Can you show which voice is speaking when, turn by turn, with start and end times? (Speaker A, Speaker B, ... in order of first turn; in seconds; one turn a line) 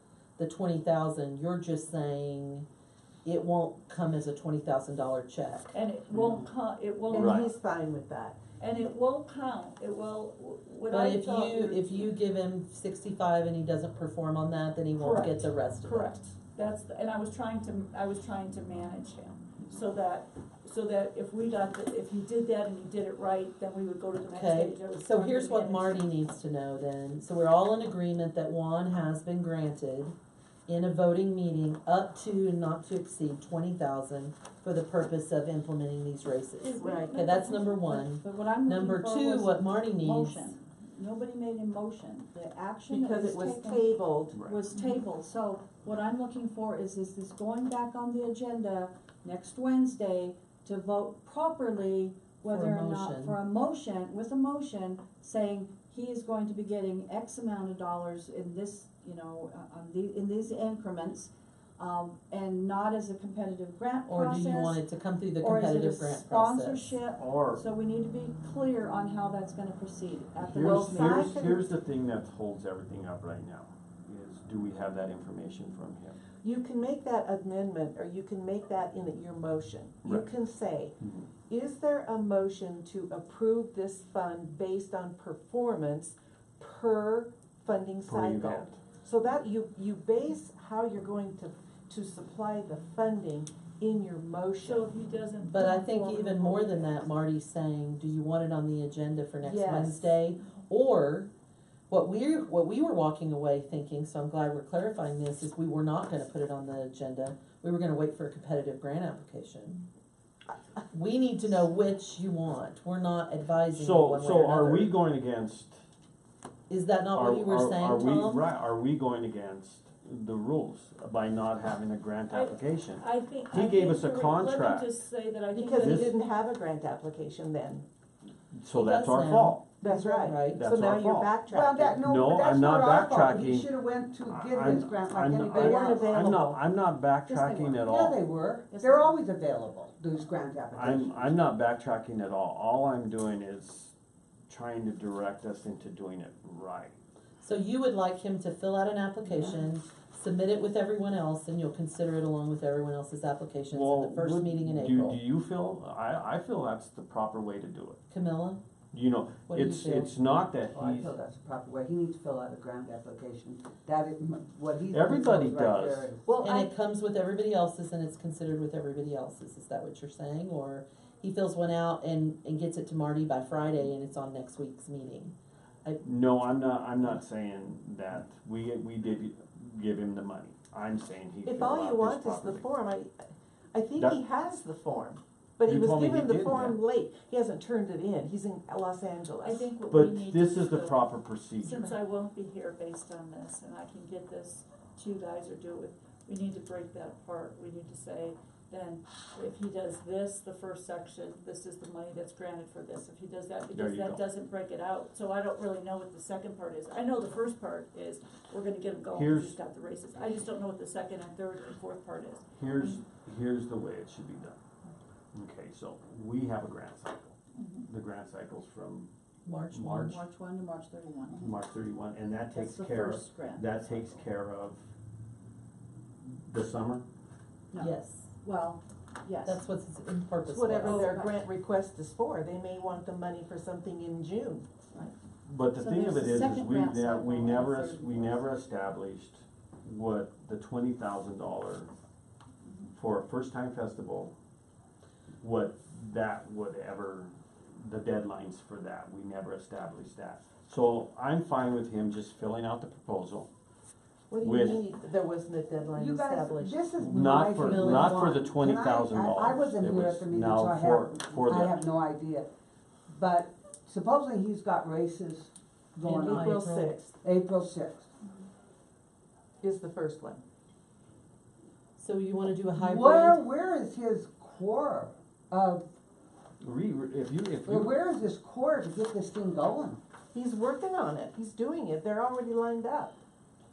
Speaker A: 0.4-2.6
Speaker A: 3.2-5.7
Speaker B: 5.7-7.5
Speaker C: 7.1-8.4
Speaker D: 7.1-7.5
Speaker B: 8.6-12.1
Speaker A: 10.9-16.1
Speaker B: 15.0-26.1
Speaker A: 24.3-30.1
Speaker A: 30.7-40.5
Speaker C: 36.7-37.4
Speaker E: 36.8-64.8
Speaker C: 42.9-44.4
Speaker D: 44.3-44.6
Speaker A: 52.5-53.4
Speaker A: 64.1-66.9
Speaker E: 65.4-71.3
Speaker D: 67.2-67.6
Speaker D: 70.4-76.2
Speaker C: 70.6-71.6
Speaker C: 76.4-81.0
Speaker D: 80.0-80.3
Speaker D: 81.0-81.3
Speaker C: 81.5-94.9
Speaker D: 88.0-88.8
Speaker B: 94.6-96.9
Speaker A: 95.5-101.3
Speaker C: 99.4-100.2
Speaker A: 101.9-109.8
Speaker A: 110.9-114.9
Speaker D: 113.7-115.8
Speaker A: 116.7-118.4
Speaker D: 117.1-125.0
Speaker B: 122.3-126.1
Speaker C: 125.5-127.8
Speaker D: 125.8-126.1
Speaker D: 128.5-129.7
Speaker A: 128.7-130.6
Speaker C: 129.8-132.0
Speaker D: 130.5-131.3
Speaker F: 131.4-136.3
Speaker D: 132.0-138.2
Speaker C: 135.5-136.5
Speaker E: 137.3-137.9
Speaker F: 137.8-141.2
Speaker E: 138.7-139.1
Speaker D: 140.7-143.9
Speaker D: 144.5-147.0
Speaker A: 147.4-155.2
Speaker D: 153.7-158.0
Speaker A: 158.1-158.6
Speaker D: 158.9-161.1
Speaker A: 159.5-160.2
Speaker F: 160.8-166.3
Speaker D: 164.9-166.1
Speaker C: 166.2-166.7
Speaker A: 166.4-176.0
Speaker D: 176.0-182.6
Speaker C: 181.4-183.1
Speaker C: 183.7-189.7
Speaker D: 185.7-186.8
Speaker B: 189.4-191.0
Speaker D: 189.9-191.9
Speaker B: 191.6-213.0
Speaker D: 203.7-204.2
Speaker D: 209.1-209.6
Speaker D: 212.6-214.6
Speaker D: 215.3-217.3
Speaker D: 217.9-219.1
Speaker A: 219.4-220.2
Speaker D: 219.7-220.2
Speaker E: 219.9-221.6
Speaker D: 221.3-224.8
Speaker E: 222.5-223.7
Speaker D: 226.5-227.0
Speaker E: 227.7-229.6
Speaker A: 227.8-228.3
Speaker A: 229.4-231.1
Speaker C: 230.4-234.7
Speaker E: 231.1-231.4
Speaker D: 235.4-241.9
Speaker E: 235.8-238.4
Speaker D: 242.9-244.3
Speaker D: 245.4-253.5
Speaker C: 254.3-256.8
Speaker D: 254.4-254.9
Speaker F: 255.9-262.5
Speaker D: 256.9-261.8
Speaker A: 257.6-258.1
Speaker F: 263.1-266.6
Speaker C: 266.1-267.1
Speaker A: 266.1-266.9
Speaker F: 267.2-268.1
Speaker C: 269.6-270.4
Speaker A: 272.0-273.4
Speaker F: 272.8-275.9
Speaker D: 276.6-277.9
Speaker F: 277.6-280.0
Speaker C: 280.3-283.1